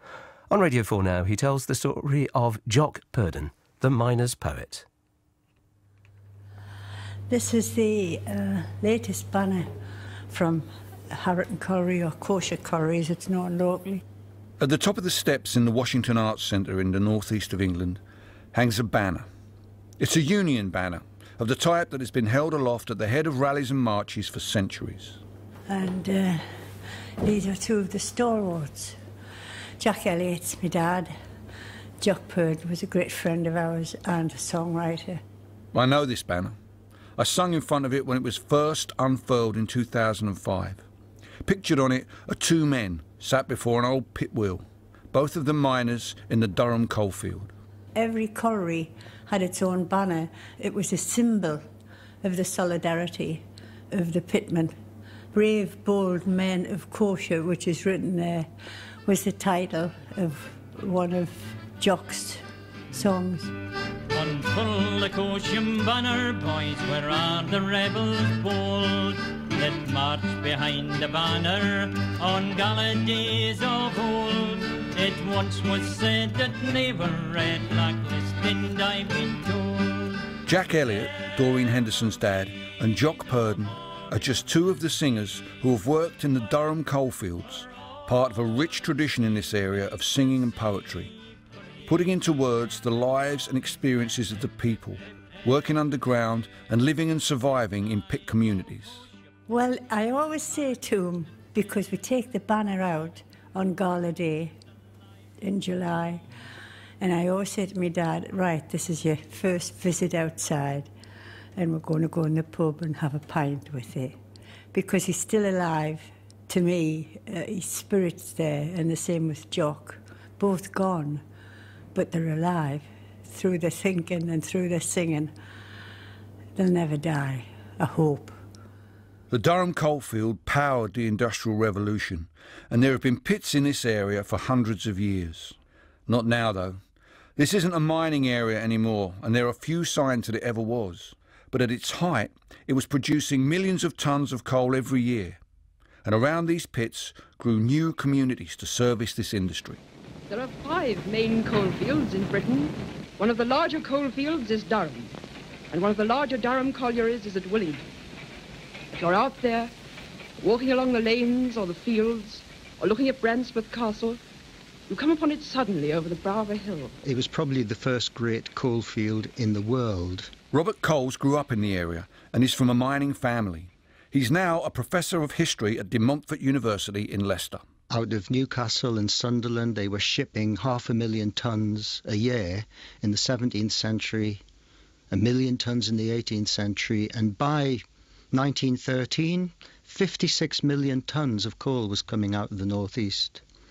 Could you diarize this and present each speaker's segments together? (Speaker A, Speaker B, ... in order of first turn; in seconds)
Speaker A: 0.5-4.8
Speaker B: 7.3-9.8, 10.3-14.0, 25.7-26.7, 27.2-29.0, 29.8-31.1, 32.0-35.2, 48.0-51.6, 52.2-54.8, 55.3-58.5, 59.0-63.5, 99.5-104.5, 105.4-106.2, 107.0-110.9, 111.5-114.2, 114.7-121.2, 121.9-125.3, 126.5-128.4
Speaker C: 14.6-18.0, 18.5-19.3, 20.0-25.2, 35.7-36.5, 37.2-40.8, 41.4-47.5, 80.4-91.1, 91.8-99.0, 129.3-136.8, 137.3-145.4, 146.0-149.8, 170.5-177.6
Speaker D: 64.1-80.2
Speaker E: 150.3-155.1, 155.7-157.8, 159.0-159.7, 160.4-164.2, 164.9-166.9
Speaker F: 167.0-170.3, 177.9-184.4, 185.1-193.4